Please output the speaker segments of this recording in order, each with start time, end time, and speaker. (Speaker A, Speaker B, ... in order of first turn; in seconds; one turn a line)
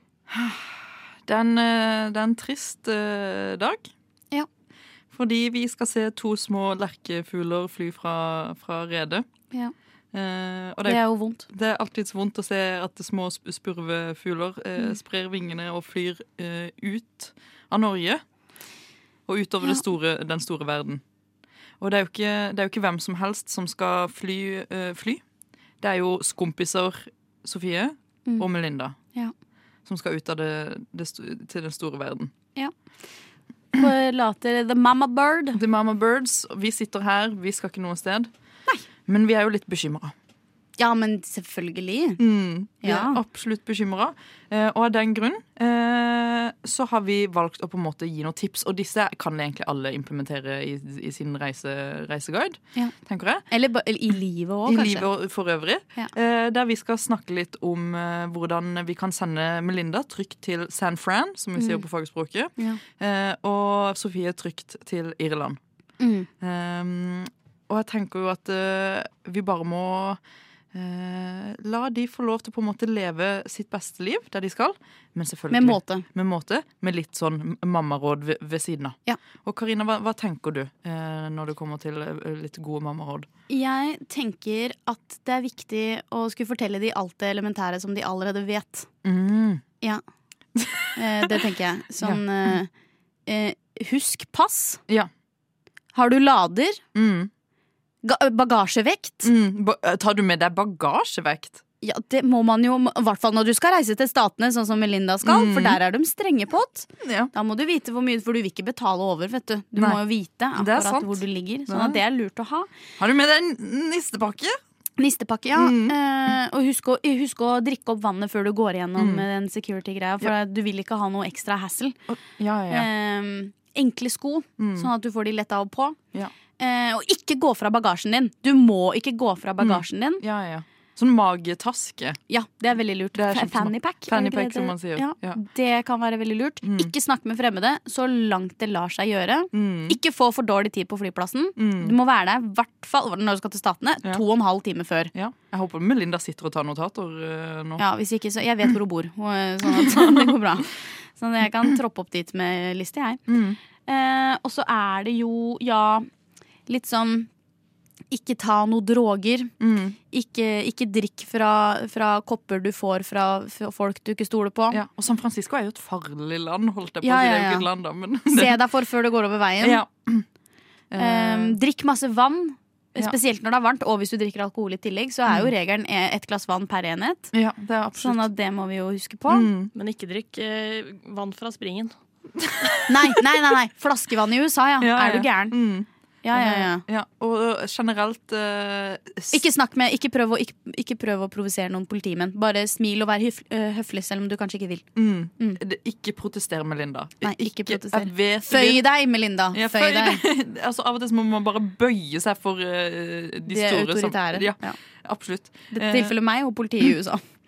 Speaker A: 0.3-3.9
Speaker A: 5.1-9.3
Speaker A: 10.1-18.2
Speaker B: 10.8-11.5
Speaker A: 19.3-21.0
Speaker A: 21.8-25.2
Speaker A: 25.8-29.0
Speaker A: 29.9-32.3
Speaker B: 33.7-35.6
Speaker A: 35.5-38.3
Speaker A: 39.1-40.1
Speaker B: 40.8-42.2
Speaker A: 42.2-53.4
Speaker B: 42.8-43.2
Speaker B: 53.5-55.1
Speaker A: 54.6-65.6
Speaker B: 61.6-61.9
Speaker B: 66.0-66.3
Speaker A: 66.4-70.2
Speaker A: 70.7-83.3
Speaker B: 75.5-76.1
Speaker B: 83.5-88.9
Speaker A: 89.0-89.6
Speaker A: 90.6-91.2
Speaker B: 91.0-92.7
Speaker B: 93.2-94.8
Speaker B: 95.9-96.8
Speaker A: 97.0-97.3
Speaker B: 98.0-99.3
Speaker A: 99.2-101.6
Speaker B: 101.8-112.7
Speaker A: 105.2-105.8
Speaker A: 107.0-107.3
Speaker A: 109.8-110.0
Speaker A: 110.5-112.0
Speaker A: 113.0-114.6
Speaker B: 115.0-122.0
Speaker A: 115.5-116.3
Speaker A: 119.0-119.2
Speaker A: 122.1-122.9
Speaker B: 122.7-126.0
Speaker A: 124.6-124.9
Speaker B: 126.6-130.2
Speaker A: 129.6-132.2
Speaker B: 132.3-145.1
Speaker A: 133.1-135.4
Speaker A: 136.6-136.9
Speaker A: 139.5-140.0
Speaker A: 141.6-141.9
Speaker A: 145.1-147.8
Speaker B: 147.8-153.2
Speaker A: 149.7-150.4
Speaker A: 153.3-153.6
Speaker B: 153.8-156.1
Speaker B: 156.7-157.3
Speaker B: 158.1-159.5
Speaker A: 159.6-160.0
Speaker B: 160.1-164.8
Speaker A: 164.7-168.6
Speaker B: 167.0-167.7
Speaker B: 168.3-169.8
Speaker A: 169.6-170.2
Speaker A: 170.9-171.6
Speaker B: 171.0-177.3
Speaker A: 177.3-178.2
Speaker B: 178.0-179.5
Speaker A: 179.3-179.7
Speaker C: 179.8-181.9
Speaker A: 182.4-183.2
Speaker B: 182.9-185.6
Speaker A: 184.8-189.4
Speaker B: 186.2-186.8
Speaker B: 189.3-194.8
Speaker A: 195.0-198.8
Speaker B: 197.2-200.2
Speaker A: 199.5-206.1
Speaker B: 203.5-204.8
Speaker B: 205.7-207.2